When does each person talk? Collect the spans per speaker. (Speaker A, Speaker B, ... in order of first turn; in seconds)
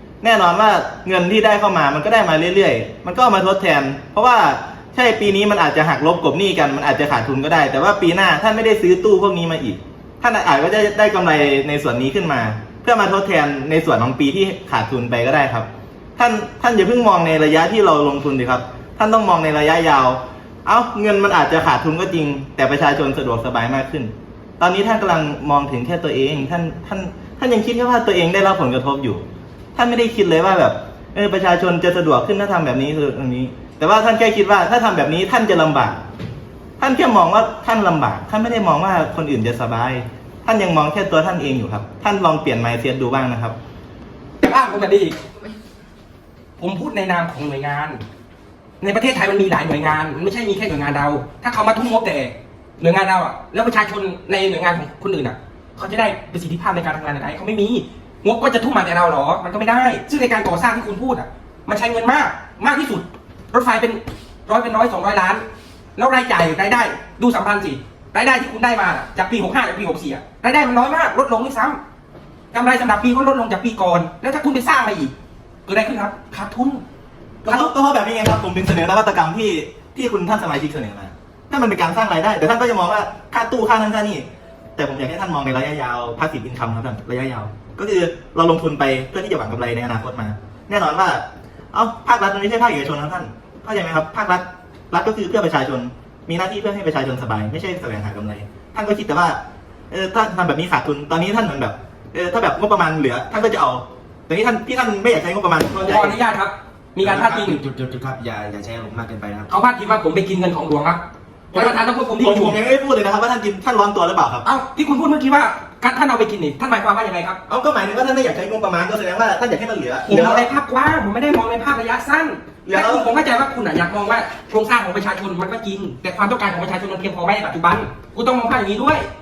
Speaker A: 0.2-36.0, 36.8-43.6, 77.4-106.1, 111.5-114.4, 117.5-120.5, 122.7-123.1
Speaker B: 44.4-45.2, 46.6-48.0, 48.8-65.4, 66.0-71.8, 72.5-75.1, 75.7-76.8, 77.5-77.7, 105.8-107.6, 109.5-111.0, 111.5-112.6, 114.5-117.4, 120.1-129.1
Speaker C: 107.0-109.5